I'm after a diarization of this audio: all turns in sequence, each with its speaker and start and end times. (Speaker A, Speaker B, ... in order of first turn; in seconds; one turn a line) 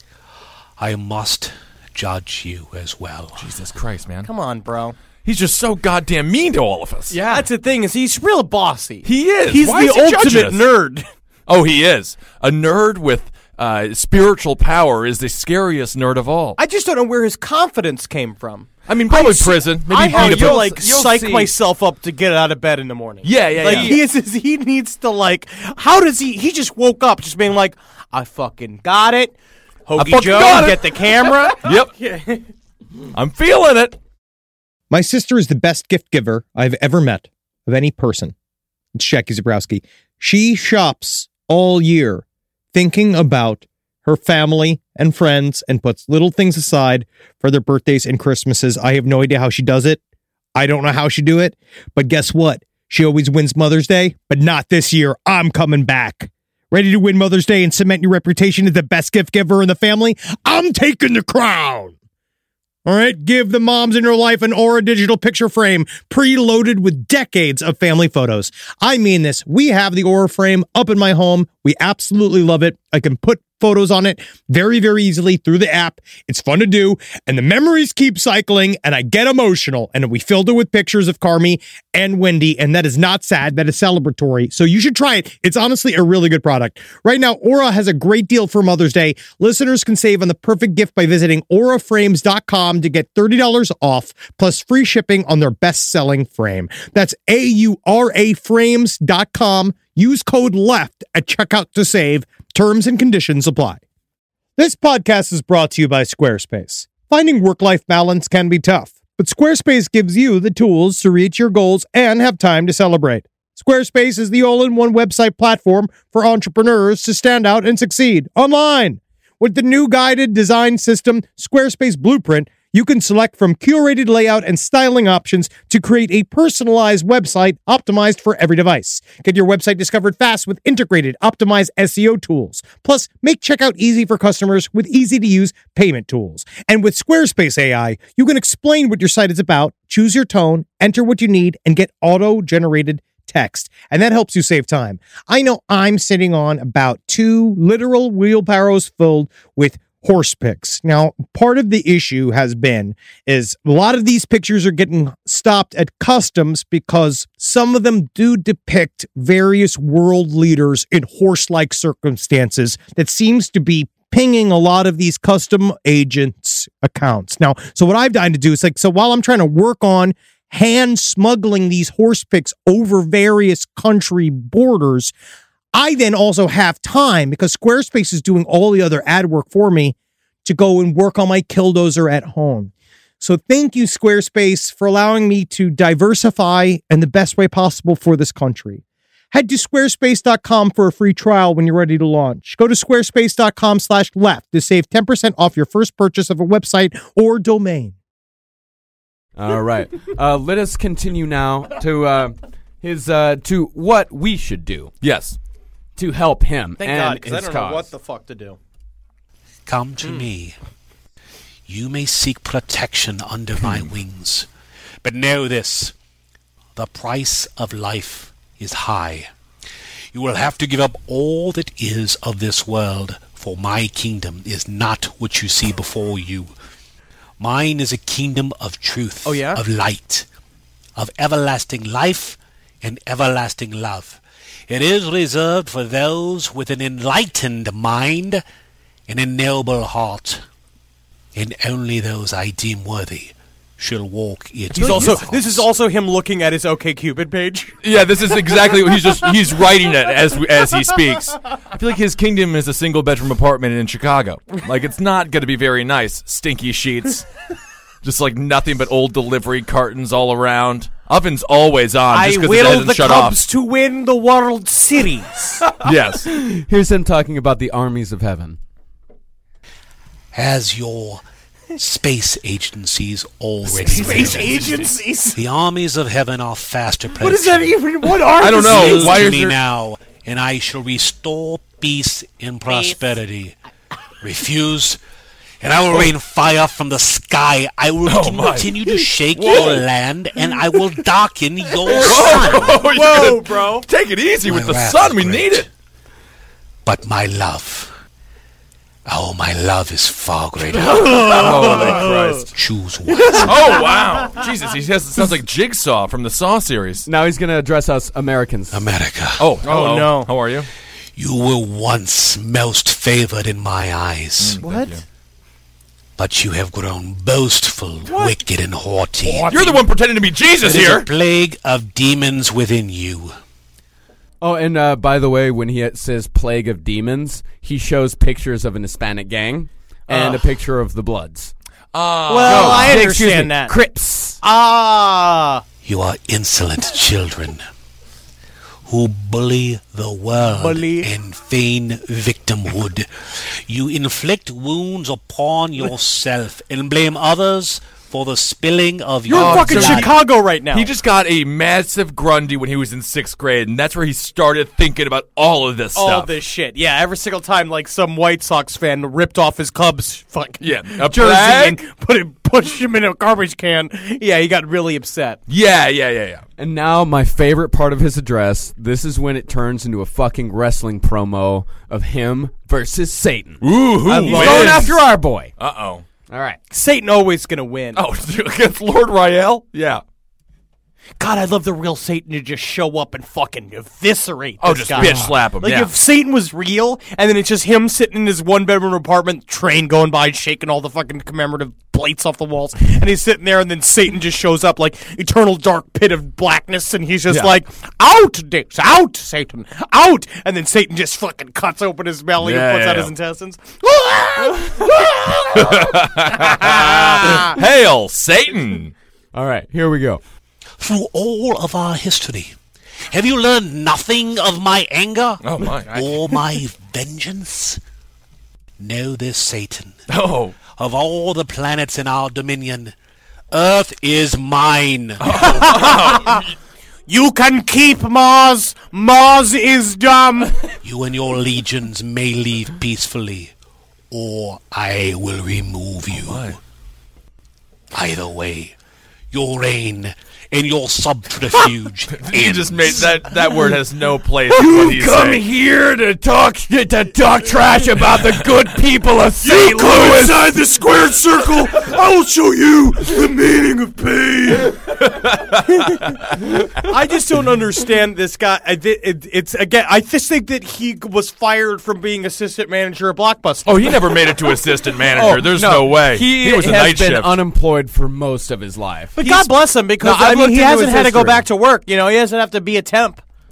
Speaker A: 0.8-3.5
Speaker B: 3.4-4.3
Speaker C: 4.2-5.0
Speaker B: 5.2-7.2
Speaker D: 7.1-7.5
Speaker C: 7.2-11.1
Speaker B: 9.0-10.7
Speaker B: 11.5-16.6
Speaker C: 16.6-29.3
Speaker B: 18.9-20.7
Speaker D: 20.1-21.5
Speaker B: 23.2-24.0
Speaker D: 23.6-24.0
Speaker C: 29.9-32.5
Speaker B: 30.0-31.9
Speaker B: 33.1-34.0
Speaker E: 34.9-38.3
Speaker E: 38.9-50.0
Speaker E: 50.5-61.9
Speaker E: 62.8-103.8
Speaker E: 104.6-175.1
Speaker E: 175.7-197.9
Speaker D: 199.4-204.9
Speaker B: 205.0-205.4
Speaker D: 205.9-207.9
Speaker C: 206.8-208.6
Speaker A: 209.7-210.6
Speaker A: 211.7-214.5
Speaker A: 215.0-215.9
Speaker A: 216.7-219.3
Speaker A: 220.1-226.5
Speaker A: 227.4-230.3
Speaker C: 229.2-229.6
Speaker A: 230.9-238.4
Speaker A: 239.1-240.4
Speaker A: 241.3-245.7
Speaker C: 244.7-247.7
Speaker B: 247.8-257.3
Speaker B: 258.0-263.4
Speaker C: 262.1-265.7
Speaker B: 265.8-266.3
Speaker D: 266.2-268.6
Speaker A: 270.3-271.2
Speaker A: 271.8-283.6
Speaker C: 273.7-275.4
Speaker C: 277.2-279.3
Speaker B: 278.3-279.6
Speaker A: 284.2-285.0
Speaker A: 285.6-292.8
Speaker B: 288.0-289.8
Speaker B: 291.8-295.7
Speaker C: 292.4-293.9
Speaker A: 294.4-295.7
Speaker A: 296.8-297.9
Speaker A: 299.1-303.9
Speaker C: 300.8-302.4
Speaker B: 301.1-302.5
Speaker C: 303.1-304.1
Speaker B: 303.4-307.1
Speaker D: 307.1-308.9
Speaker A: 308.7-309.6
Speaker B: 309.4-310.7
Speaker C: 309.6-310.3
Speaker A: 311.1-314.6
Speaker B: 314.4-315.0
Speaker C: 314.6-314.9
Speaker A: 316.2-319.7
Speaker C: 318.1-318.3
Speaker C: 319.3-319.8
Speaker B: 319.5-321.1
Speaker A: 320.6-323.4
Speaker D: 324.4-331.5
Speaker C: 330.1-330.4
Speaker B: 331.9-333.1
Speaker C: 332.3-333.8
Speaker D: 332.4-334.4
Speaker C: 334.4-335.6
Speaker A: 335.8-337.6
Speaker A: 338.8-350.1
Speaker C: 340.5-341.1
Speaker C: 349.3-350.9
Speaker B: 349.3-356.3
Speaker C: 355.9-365.4
Speaker B: 360.6-361.8
Speaker B: 365.5-366.4
Speaker D: 366.6-375.5
Speaker B: 373.6-375.0
Speaker C: 374.1-375.0
Speaker B: 375.6-376.0
Speaker D: 376.3-376.6
Speaker C: 376.7-378.0
Speaker B: 377.9-380.0
Speaker C: 381.2-407.6
Speaker B: 384.6-385.9
Speaker D: 385.0-385.3
Speaker B: 402.4-403.1
Speaker B: 405.5-408.9
Speaker D: 409.3-410.2
Speaker A: 410.8-412.6
Speaker A: 413.1-417.8
Speaker B: 415.4-416.1
Speaker A: 418.8-420.0
Speaker B: 420.1-420.6
Speaker A: 420.7-422.9
Speaker A: 423.5-425.8
Speaker B: 425.2-426.5
Speaker C: 425.3-426.4
Speaker C: 427.1-430.7
Speaker A: 430.8-433.5
Speaker A: 434.1-436.6
Speaker B: 436.1-436.6
Speaker A: 437.9-438.8
Speaker A: 439.3-443.2
Speaker B: 442.1-445.4
Speaker D: 444.5-450.5
Speaker C: 449.4-454.8
Speaker B: 455.0-456.0
Speaker C: 455.7-456.2
Speaker C: 456.7-464.3
Speaker B: 463.6-467.4
Speaker D: 465.1-471.4
Speaker C: 469.2-473.2